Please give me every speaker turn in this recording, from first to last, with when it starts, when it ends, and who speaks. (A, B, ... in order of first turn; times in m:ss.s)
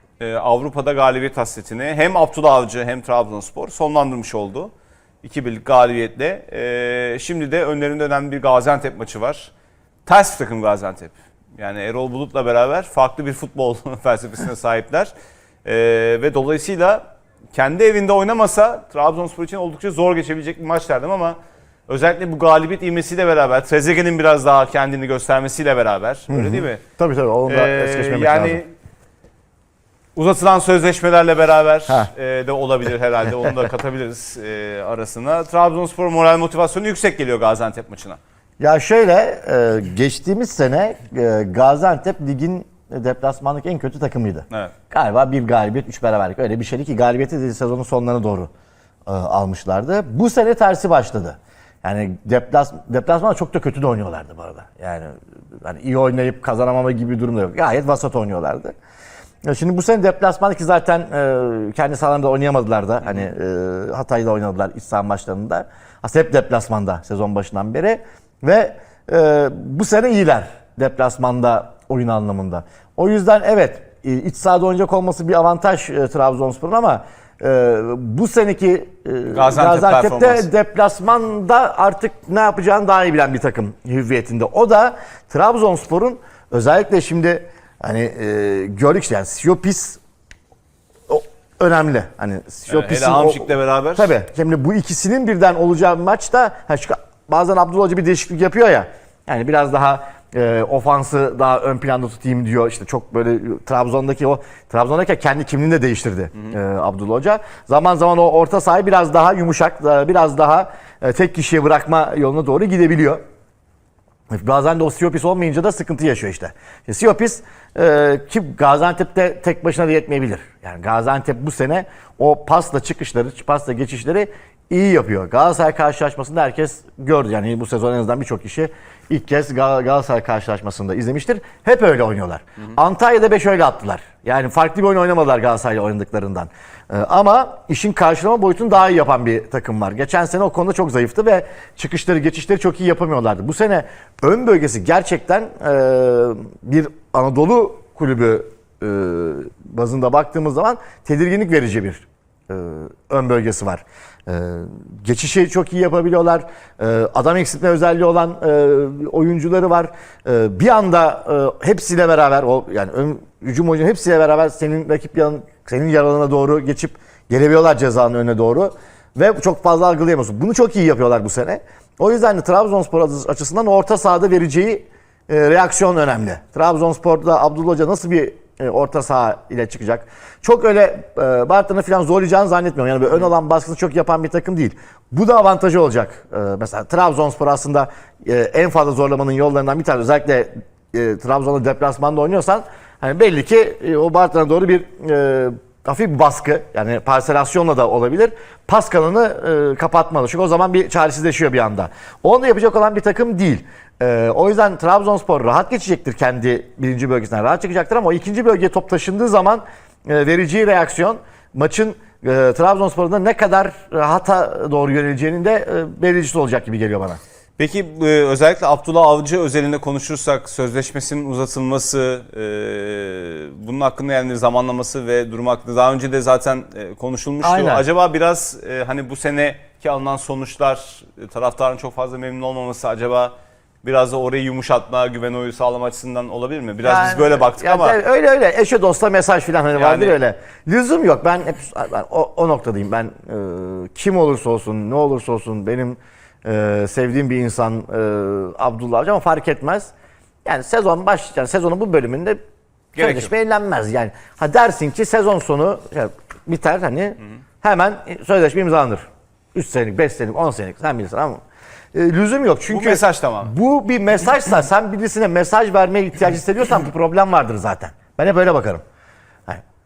0:00.2-0:09.5 A
0:10.1-0:15.1 A
0:15.6-0:26.8 A
0:26.3-0:28.6 B
0:27.5-0:28.7 A
0:30.2-0:38.2 A
0:38.6-0:48.5 B
0:49.1-0:58.7 B
0:59.4-1:30.0 B
1:03.0-1:03.3 A
1:19.3-1:20.5 A
1:31.1-1:53.2 B
1:32.7-1:34.2 A
1:54.3-3:37.2 B
3:37.6-3:58.0 A
3:47.4-3:47.9 B
3:56.8-4:09.9 B
3:59.8-4:00.2 A
4:10.4-4:12.4 B
4:12.9-4:21.4 B
4:13.0-4:13.3 A
4:21.9-4:28.8 B
4:22.7-4:23.5 A